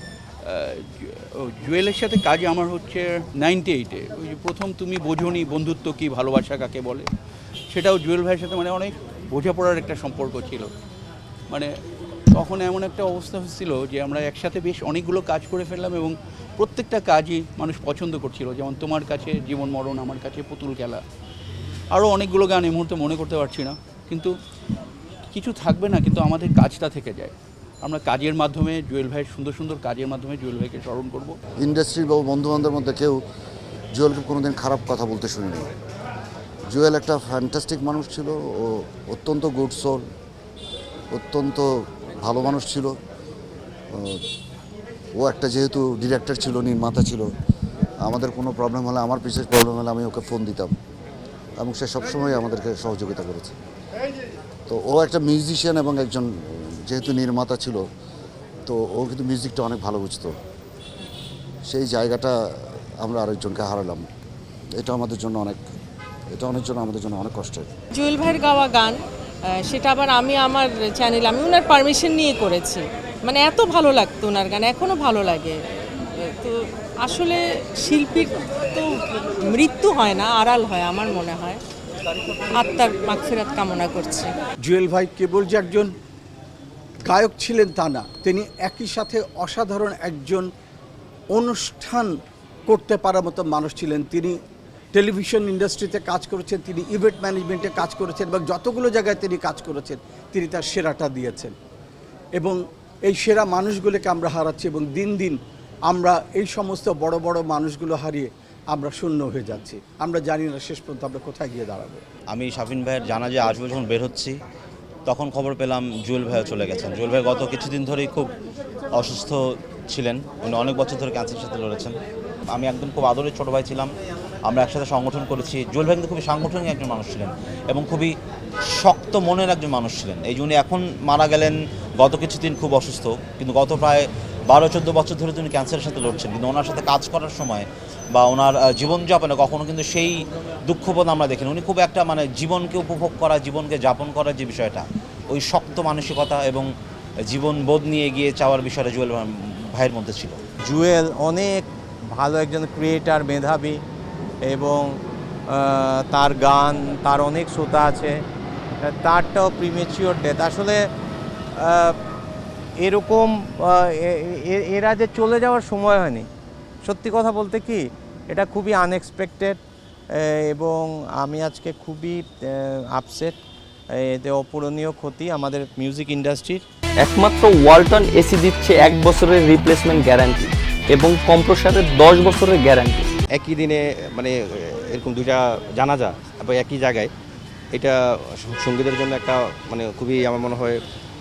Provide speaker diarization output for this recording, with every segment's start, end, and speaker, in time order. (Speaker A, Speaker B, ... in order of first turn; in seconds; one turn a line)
Speaker A: 0.4-7.1
Speaker A: 7.7-10.7
Speaker A: 12.3-21.0
Speaker A: 21.9-24.3
Speaker A: 25.3-31.4
Speaker B: 31.6-33.2
Speaker B: 34.0-35.7
Speaker B: 36.7-40.0
Speaker B: 41.1-41.7
Speaker B: 42.2-42.9
Speaker B: 43.9-44.2
Speaker B: 45.2-47.2
Speaker B: 48.0-50.7
Speaker B: 51.6-53.6
Speaker B: 54.7-57.8
Speaker B: 58.7-60.3
Speaker B: 61.7-62.3
Speaker B: 63.0-64.0
Speaker B: 64.8-65.6
Speaker B: 66.3-67.7
Speaker C: 67.9-69.0
Speaker C: 69.6-75.6
Speaker C: 76.4-78.9
Speaker C: 79.4-81.6
Speaker C: 82.5-84.3
Speaker D: 84.6-85.9
Speaker D: 87.0-90.5
Speaker D: 91.3-94.4
Speaker D: 94.9-101.5
Speaker D: 102.3-112.0
Speaker E: 112.3-114.3
Speaker E: 115.0-118.3
Speaker E: 119.0-119.4
Speaker E: 119.9-121.9
Speaker E: 122.5-123.9
Speaker E: 124.5-128.1
Speaker E: 128.8-146.7
Speaker E: 147.3-150.4
Speaker F: 150.6-153.8
Speaker F: 154.4-158.2
Speaker F: 158.8-160.9
Speaker F: 161.6-162.0
Speaker F: 162.8-166.3
Speaker F: 166.8-173.4
Speaker F: 173.9-176.7
Speaker G: 177.0-183.1
Speaker H: 183.3-187.1
Speaker H: 187.7-190.8